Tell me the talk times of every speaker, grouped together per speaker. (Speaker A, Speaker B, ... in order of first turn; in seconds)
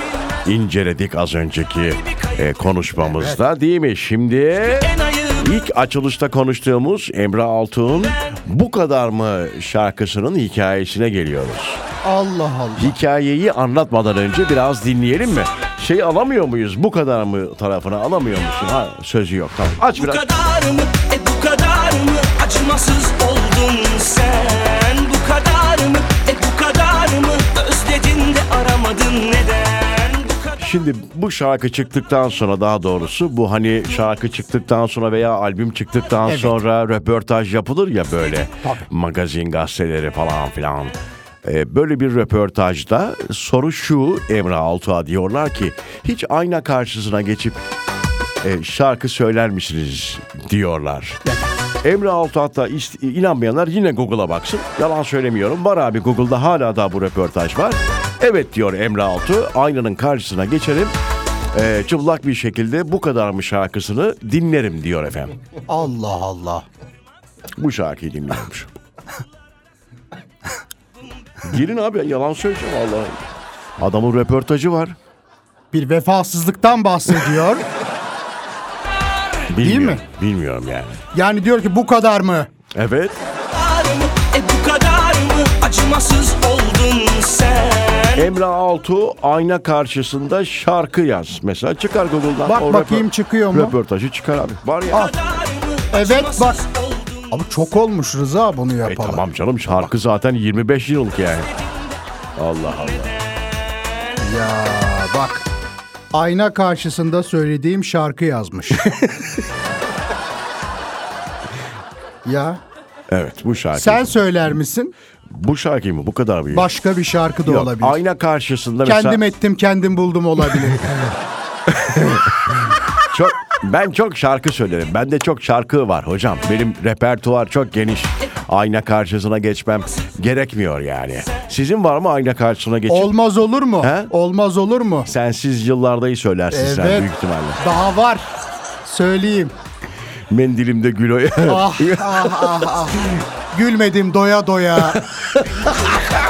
Speaker A: 0.4-11.8, 12.8-20.2, 30.6-47.6, 48.4-51.2, 51.8-60.9, 61.5-65.3, 67.5-68.7, 71.4-73.2, 73.8-75.0, 79.5-81.0, 82.7-83.2, 88.1-95.1, 98.8-101.5, 102.3-103.2, 113.1-114.1, 115.3-116.7, 117.4-119.2, 121.7-133.1, 133.8-134.1, 135.1-137.6, 140.3-142.7, 144.9-145.7
Speaker B: 3.0-3.4, 12.0-12.9, 36.2-36.6, 51.2-51.5, 65.7-66.7, 75.7-77.7, 79.6-80.0, 81.1-82.5, 92.5-93.7, 95.9-96.6, 97.3-99.2, 104.2-105.5, 106.1-109.3, 112.2-112.6, 113.7-114.9, 116.5-118.0, 118.8-120.9, 132.9-135.1, 136.5-137.1, 137.6-138.3, 138.8-139.5, 141.4-145.0
Speaker C: 4.8-5.5, 19.9-30.6, 83.5-88.3, 94.9-97.3